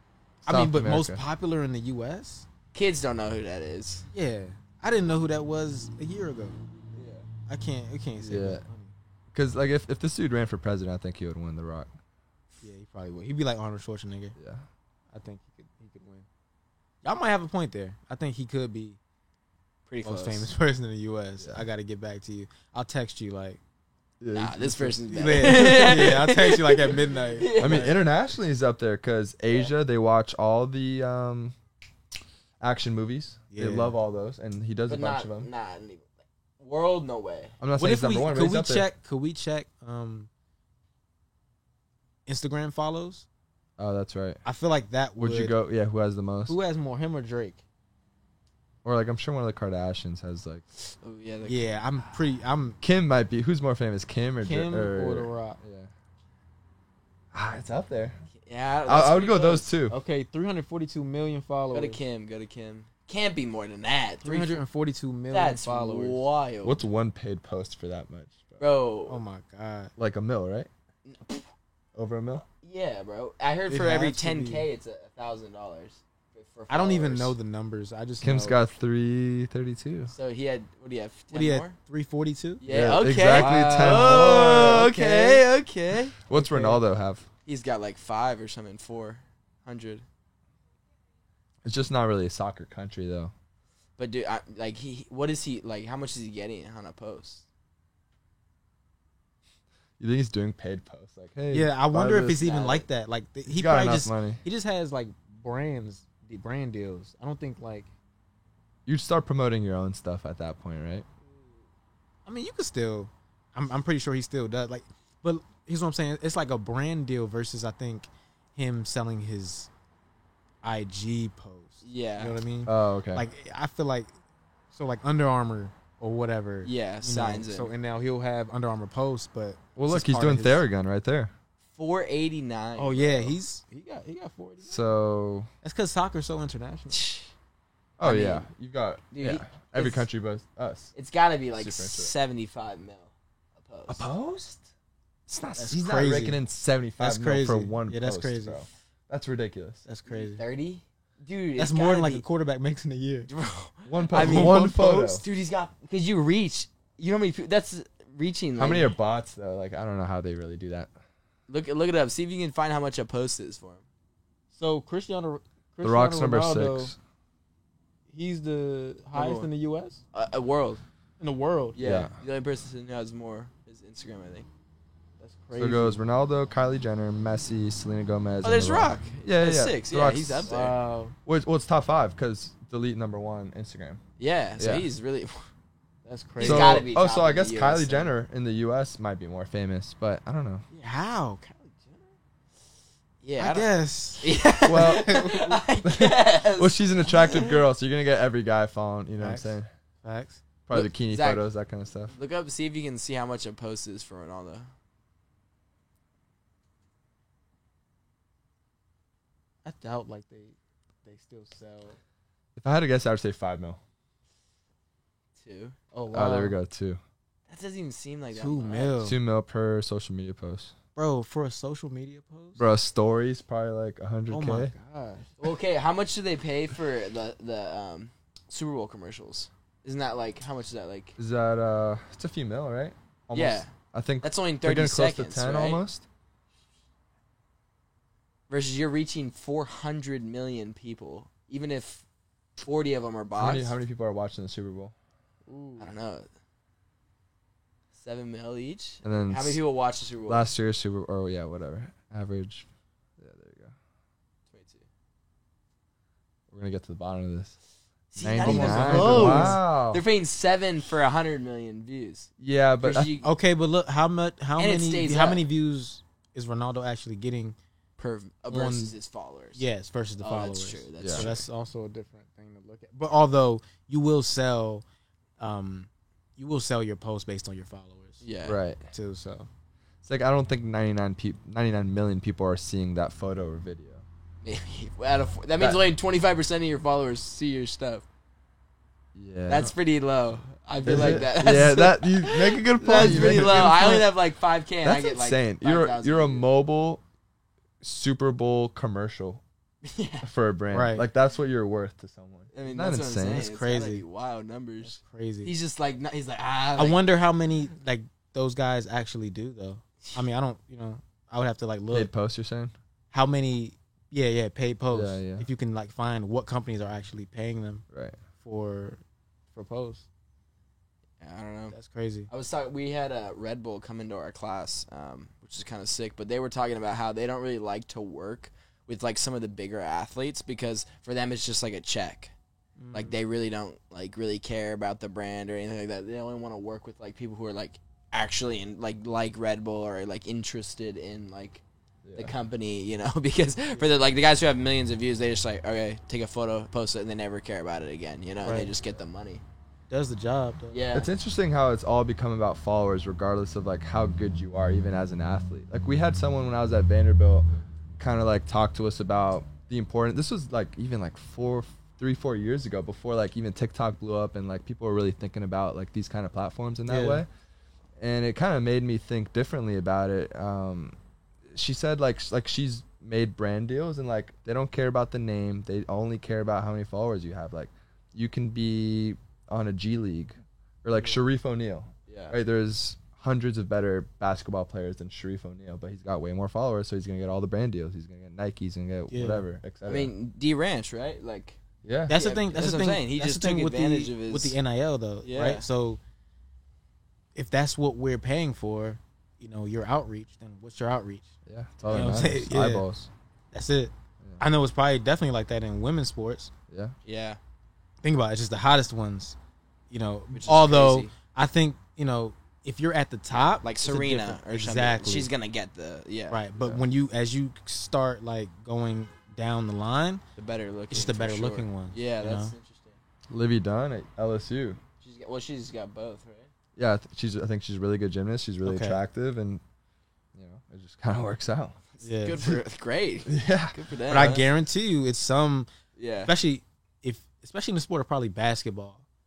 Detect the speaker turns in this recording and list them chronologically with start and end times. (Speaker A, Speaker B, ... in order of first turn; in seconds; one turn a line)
Speaker A: 0.5-1.2
Speaker B: 0.5-2.5
Speaker C: 2.7-4.1
Speaker B: 4.1-6.6
Speaker C: 7.0-7.2
Speaker B: 7.5-8.9
Speaker A: 8.2-8.6
Speaker A: 9.3-11.9
Speaker B: 12.6-14.4
Speaker A: 14.4-14.7
Speaker B: 15.1-16.3
Speaker B: 17.0-19.0
Speaker C: 19.9-20.5
Speaker B: 20.0-23.6
Speaker A: 21.4-21.6
Speaker A: 24.2-25.9
Speaker C: 24.3-28.0
Speaker B: 25.1-27.9
Speaker A: 27.6-31.6
Speaker A: 32.6-35.5
Speaker B: 33.5-34.0
Speaker C: 34.9-37.6
Speaker A: 37.6-38.9
Speaker B: 37.8-40.3
Speaker B: 42.3-43.2
Speaker A: 43.8-44.4
Speaker B: 44.5-45.5
Speaker A: 45.2-46.6
Speaker B: 46.5-47.6
Speaker A: 48.8-50.6
Speaker C: 51.0-51.7
Speaker B: 51.5-52.8
Speaker A: 52.8-55.9
Speaker B: 54.4-55.6
Speaker A: 57.3-58.2
Speaker C: 58.4-59.7
Speaker A: 58.9-60.0
Speaker B: 59.9-62.0
Speaker C: 61.7-64.6
Speaker B: 64.2-66.3
Speaker C: 65.3-66.8
Speaker A: 66.6-68.7
Speaker C: 68.6-69.2
Speaker B: 69.1-69.9
Speaker A: 70.0-70.7
Speaker C: 71.0-71.5
Speaker A: 72.0-72.5
Speaker C: 72.6-77.3
Speaker B: 73.7-74.7
Speaker B: 76.7-78.6
Speaker A: 78.2-80.1
Speaker C: 80.1-81.8
Speaker B: 81.3-82.6
Speaker C: 82.6-86.2
Speaker A: 82.7-85.2
Speaker B: 83.4-85.4
Speaker A: 86.2-87.3
Speaker B: 86.3-86.8
Speaker C: 87.5-90.0
Speaker A: 91.6-93.3
Speaker C: 94.0-97.5
Speaker A: 100.0-102.4
Speaker B: 101.5-107.9
Speaker C: 102.4-102.9
Speaker A: 103.5-104.4
Speaker A: 108.9-111.1
Speaker B: 112.3-119.7
Speaker B: 120.6-124.1
Speaker C: 121.8-122.4
Speaker A: 122.7-123.3
Speaker B: 124.7-130.6
Speaker C: 126.6-127.7
Speaker A: 129.8-131.3
Speaker C: 131.8-133.3
Speaker B: 132.8-134.8
Speaker A: 134.6-135.5
Speaker B: 135.6-137.0
Speaker C: 136.9-137.3
Speaker A: 138.0-140.9
Speaker C: 138.0-138.5
Speaker C: 139.1-140.0
Speaker C: 140.9-144.1
Speaker A: 141.6-142.1
Speaker A: 143.9-144.7
Speaker A: 145.3-149.8
Speaker B: 145.6-146.4
Speaker B: 147.0-148.7
Speaker B: 149.8-150.4
Speaker C: 150.1-152.2
Speaker B: 151.6-153.3
Speaker C: 153.3-158.9
Speaker A: 153.8-155.2
Speaker A: 158.6-160.9
Speaker C: 161.5-163.8
Speaker B: 164.5-166.9
Speaker A: 165.8-167.0
Speaker B: 168.1-170.0
Speaker C: 169.1-169.5
Speaker C: 170.1-170.8
Speaker B: 171.2-171.8
Speaker C: 171.7-174.5
Speaker A: 171.8-172.1
Speaker B: 175.2-176.0
Speaker A: 175.6-180.5
Speaker C: 178.4-180.8
Speaker B: 180.4-181.2
Speaker A: 181.3-184.0
Speaker C: 184.2-185.5
Speaker A: 184.6-184.9
Speaker B: 186.1-186.8
Speaker C: 186.4-188.1
Speaker A: 186.4-190.7
Speaker B: 190.7-191.7
Speaker C: 191.7-192.0
Speaker C: 193.2-197.6
Speaker B: 193.4-195.6
Speaker A: 194.7-195.3
Speaker A: 195.8-199.7
Speaker B: 199.2-200.4
Speaker A: 200.7-202.1
Speaker C: 200.7-201.5
Speaker C: 202.1-204.7
Speaker B: 209.7-212.0
Speaker A: 212.6-213.8
Speaker C: 215.4-215.8
Speaker B: 215.9-216.6
Speaker A: 216.1-217.0
Speaker C: 217.5-219.1
Speaker B: 218.3-219.2
Speaker A: 219.0-220.7
Speaker B: 221.0-222.6
Speaker A: 222.6-224.7
Speaker B: 224.3-225.3
Speaker C: 225.4-231.2
Speaker A: 231.2-236.1
Speaker C: 233.3-235.8
Speaker C: 238.5-242.0
Speaker C: 242.6-243.7
Speaker A: 243.4-244.9
Speaker B: 245.5-245.9
Speaker C: 245.8-246.3
Speaker C: 248.0-250.5
Speaker A: 249.0-249.6
Speaker A: 250.3-252.7
Speaker A: 253.2-253.8
Speaker C: 254.5-254.9
Speaker A: 256.5-257.6
Speaker C: 258.1-262.3
Speaker A: 258.2-260.0
Speaker B: 258.4-259.6
Speaker A: 262.4-263.1
Speaker C: 262.8-263.3
Speaker B: 263.2-267.6
Speaker C: 264.6-265.4
Speaker C: 268.0-269.6
Speaker B: 268.5-268.9
Speaker B: 269.6-274.8
Speaker C: 270.2-271.4
Speaker A: 271.0-271.3
Speaker B: 275.4-278.2
Speaker C: 278.2-278.6
Speaker A: 278.4-278.8
Speaker B: 278.9-279.5
Speaker A: 280.0-284.0
Speaker C: 284.4-288.1
Speaker A: 285.6-285.8
Speaker A: 289.1-289.7
Speaker C: 289.5-296.5
Speaker A: 290.8-294.1
Speaker A: 294.8-297.0
Speaker A: 297.8-299.4
Speaker C: 299.8-300.3
Speaker A: 300.2-303.5
Speaker B: 300.7-301.1
Speaker C: 302.5-307.1
Speaker B: 303.3-304.0
Speaker B: 304.8-305.5
Speaker B: 306.8-312.1
Speaker A: 311.9-312.7
Speaker B: 313.1-317.9
Speaker A: 314.9-315.5
Speaker A: 317.9-318.2
Speaker B: 318.4-319.0
Speaker B: 319.5-320.1
Speaker C: 321.2-321.8
Speaker B: 321.7-322.3
Speaker C: 322.3-332.3
Speaker B: 332.8-333.2
Speaker C: 332.9-341.6
Speaker A: 342.1-342.3
Speaker C: 342.1-349.4
Speaker B: 348.4-348.7
Speaker B: 349.9-350.8
Speaker C: 350.7-351.1
Speaker A: 350.9-367.3
Speaker B: 366.9-367.2
Speaker A: 368.0-371.0
Speaker A: 371.5-390.1
Speaker C: 382.1-382.4
Speaker B: 389.1-389.4
Speaker C: 389.9-391.6
Speaker A: 391.8-392.2
Speaker B: 392.1-396.0
Speaker C: 392.1-394.6
Speaker C: 395.2-395.6
Speaker B: 397.4-401.3
Speaker A: 401.5-403.1
Speaker B: 401.9-402.9
Speaker B: 403.5-406.5
Speaker A: 406.7-406.9
Speaker C: 407.1-407.4
Speaker B: 408.0-409.4
Speaker B: 409.9-415.3
Speaker C: 410.3-411.1
Speaker C: 413.6-416.4
Speaker B: 416.3-420.2
Speaker C: 420.4-423.0
Speaker B: 420.9-422.5
Speaker A: 423.3-424.8
Speaker C: 425.0-426.5
Speaker A: 426.8-429.6
Speaker B: 428.6-429.0
Speaker A: 430.3-431.8
Speaker C: 431.9-434.5
Speaker B: 432.0-432.4
Speaker A: 433.3-433.8
Speaker B: 434.1-435.7
Speaker C: 436.0-436.3
Speaker B: 436.3-439.0